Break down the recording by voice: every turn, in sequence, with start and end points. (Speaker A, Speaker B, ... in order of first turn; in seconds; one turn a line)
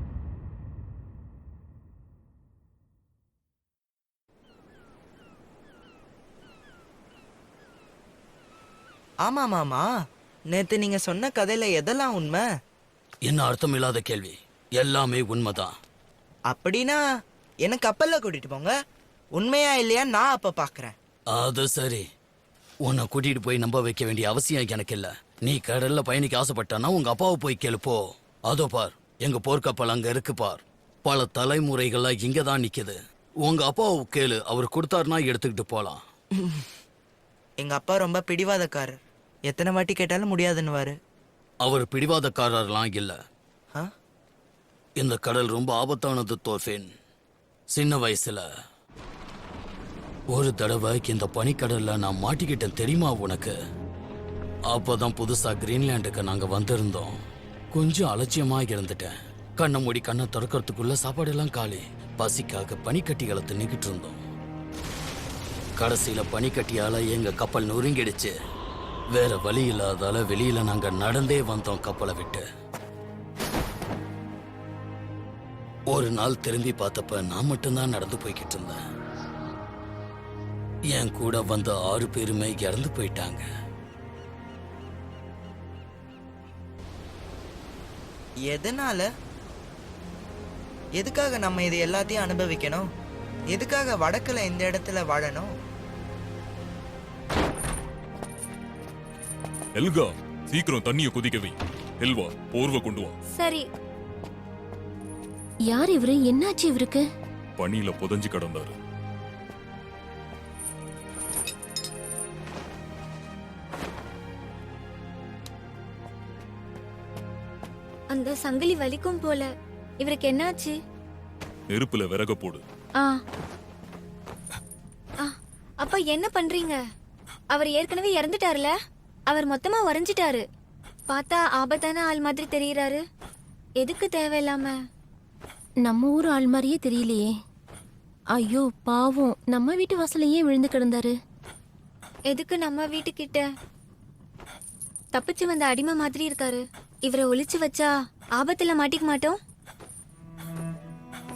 Speaker A: 9.2-9.8
Speaker A: 10.5-12.4
Speaker B: 13.3-15.7
Speaker A: 16.5-17.0
Speaker A: 17.7-18.7
Speaker A: 19.4-20.9
Speaker B: 21.3-22.1
Speaker B: 22.9-36.0
Speaker A: 36.4-36.7
Speaker A: 37.6-39.0
Speaker A: 39.5-41.0
Speaker B: 41.6-43.2
Speaker B: 45.0-46.9
Speaker B: 47.7-48.5
Speaker B: 50.3-53.5
Speaker B: 54.7-57.2
Speaker B: 57.7-64.2
Speaker B: 65.8-68.3
Speaker B: 69.2-72.5
Speaker B: 75.9-78.8
Speaker B: 80.9-83.5
Speaker A: 88.5-89.1
Speaker A: 91.0-92.9
Speaker A: 93.5-95.5
Speaker C: 99.8-103.2
Speaker D: 103.4-103.7
Speaker E: 105.7-107.0
Speaker C: 107.6-108.8
Speaker D: 118.1-119.5
Speaker D: 120.0-120.8
Speaker C: 121.7-122.6
Speaker D: 125.2-126.8
Speaker D: 127.5-128.7
Speaker D: 129.3-130.4
Speaker D: 131.1-133.0
Speaker D: 133.8-134.8
Speaker E: 135.8-137.3
Speaker E: 138.4-141.2
Speaker D: 142.3-143.5
Speaker D: 145.1-149.4